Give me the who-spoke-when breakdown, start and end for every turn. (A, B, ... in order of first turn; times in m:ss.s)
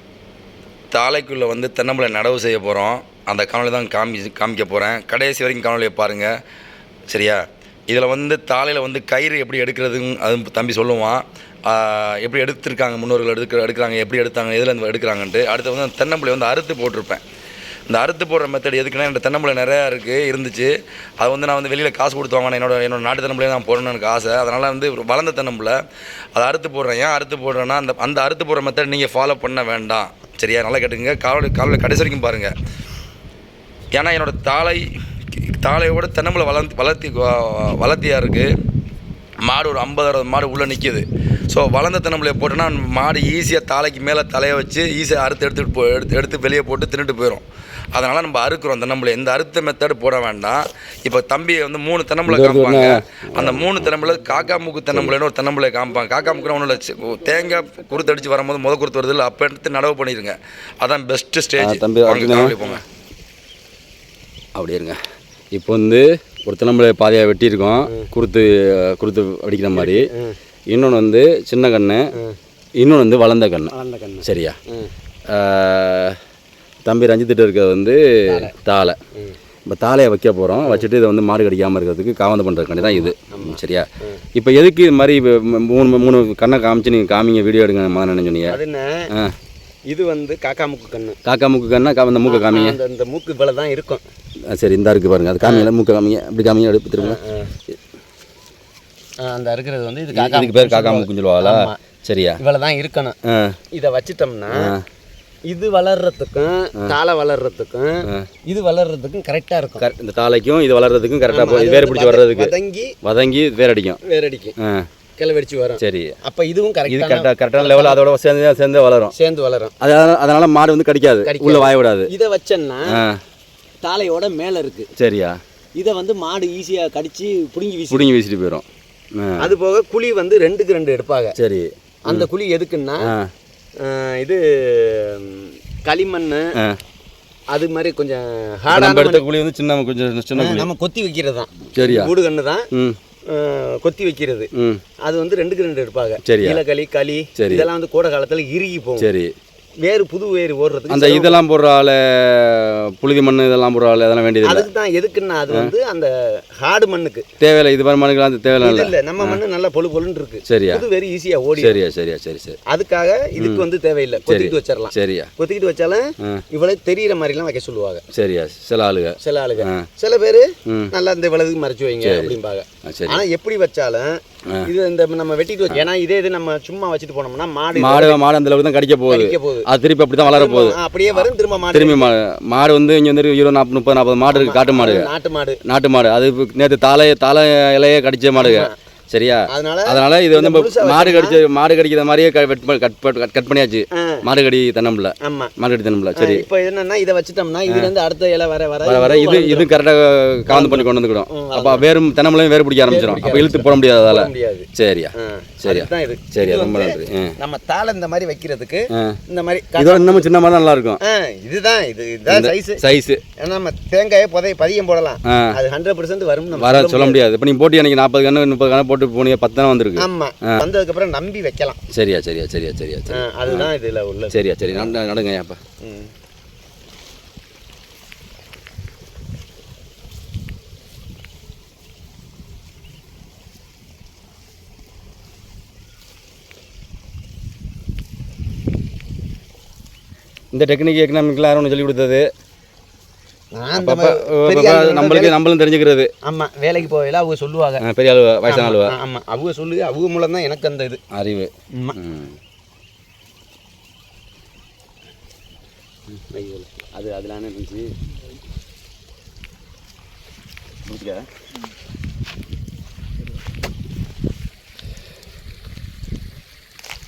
0:00.9-0:06.3 A
0:07.1-0:17.2 A
0:17.9-0:25.8 A
0:26.4-0:32.5 A
0:33.9-0:34.8 A
0:35.4-0:38.5 A
0:39.4-1:02.8 A
0:52.3-0:54.2 B
0:54.9-0:55.2 B
0:56.0-0:58.3 C
1:01.6-1:02.6 B
1:04.6-1:05.0 B
1:05.5-1:10.1 B
1:09.7-1:10.4 C
1:10.7-1:12.1 B
1:12.8-1:13.7 B
1:13.7-1:14.9 C
1:14.2-1:14.6 B
1:15.3-1:16.2 B
1:16.9-1:19.0 B
1:18.3-1:18.5 C
1:19.7-1:28.6 B
1:22.8-1:24.2 C
1:28.5-1:29.1 C
1:29.9-1:31.2 C
1:31.3-1:32.8 B
1:32.2-1:34.0 C
1:34.5-1:37.2 B
1:35.4-1:35.7 C
1:37.0-1:37.5 C
1:39.2-1:41.8 C
1:40.1-1:42.4 B
1:42.4-1:43.2 C
1:43.3-1:43.6 B
1:43.7-1:44.7 C
1:44.5-1:44.8 B
1:45.5-1:49.9 C
1:49.8-1:52.5 B
1:51.3-1:52.9 C
1:53.0-1:54.0 B
1:54.0-1:54.6 C
1:54.6-1:54.9 B
1:55.2-1:58.0 C
1:55.8-1:56.2 B
1:56.9-1:59.1 B
1:59.1-1:59.8 C
1:59.8-2:02.1 B
2:01.2-2:03.0 C
2:02.9-2:03.2 B
2:03.8-2:04.9 C
2:05.0-2:05.4 B
2:05.8-2:08.1 C
2:07.9-2:08.6 B
2:09.2-2:09.5 B
2:09.4-2:11.4 C
2:11.4-2:12.3 B
2:12.0-2:13.1 C
2:13.0-2:13.3 B
2:13.8-2:16.6 C
2:17.5-2:19.2 C
2:18.7-2:20.7 B
2:20.4-2:22.7 C
2:21.8-2:22.1 B
2:22.7-2:23.0 B
2:23.3-2:24.5 C
2:24.6-2:24.8 B
2:25.0-2:29.1 C
2:26.2-2:26.6 B
2:27.4-2:27.7 B
2:29.0-2:29.3 B
2:29.8-2:31.4 C
2:30.9-2:34.7 B
2:34.4-2:37.3 C
2:37.4-2:39.4 B
2:38.6-2:41.8 C
2:40.5-2:40.8 B
2:41.6-2:42.6 B
2:42.7-2:48.0 C
2:43.4-2:43.6 B
2:44.3-2:45.3 B
2:48.1-2:49.8 B
2:49.2-2:58.2 C
2:52.0-2:53.2 B
2:57.8-3:05.1 B
2:59.1-2:59.7 C
3:00.2-3:02.1 C
3:04.3-3:05.6 C
3:05.6-3:16.4 B
3:08.4-3:08.7 C
3:09.5-3:11.4 C
3:14.0-3:14.2 C
3:15.2-3:15.5 C
3:16.2-3:19.7 C
3:18.8-3:27.4 B
3:20.5-3:21.9 C
3:22.9-3:30.3 C
3:28.9-3:29.2 B
3:29.8-3:31.0 B
3:31.0-3:32.8 C
3:32.3-3:33.2 B
3:33.4-3:37.2 C
3:36.5-3:40.6 B
3:40.0-3:41.8 C
3:41.9-3:43.7 B
3:43.1-3:44.9 C
3:44.3-3:45.6 B
3:45.8-3:46.1 C
4:00.5-4:02.3 B
4:03.5-4:05.4 C
4:03.8-4:06.1 B
4:06.2-4:07.8 C
4:07.8-4:08.9 B
4:08.5-4:11.0 C
4:11.1-4:12.4 B
4:16.1-4:17.9 C
4:20.9-4:21.2 B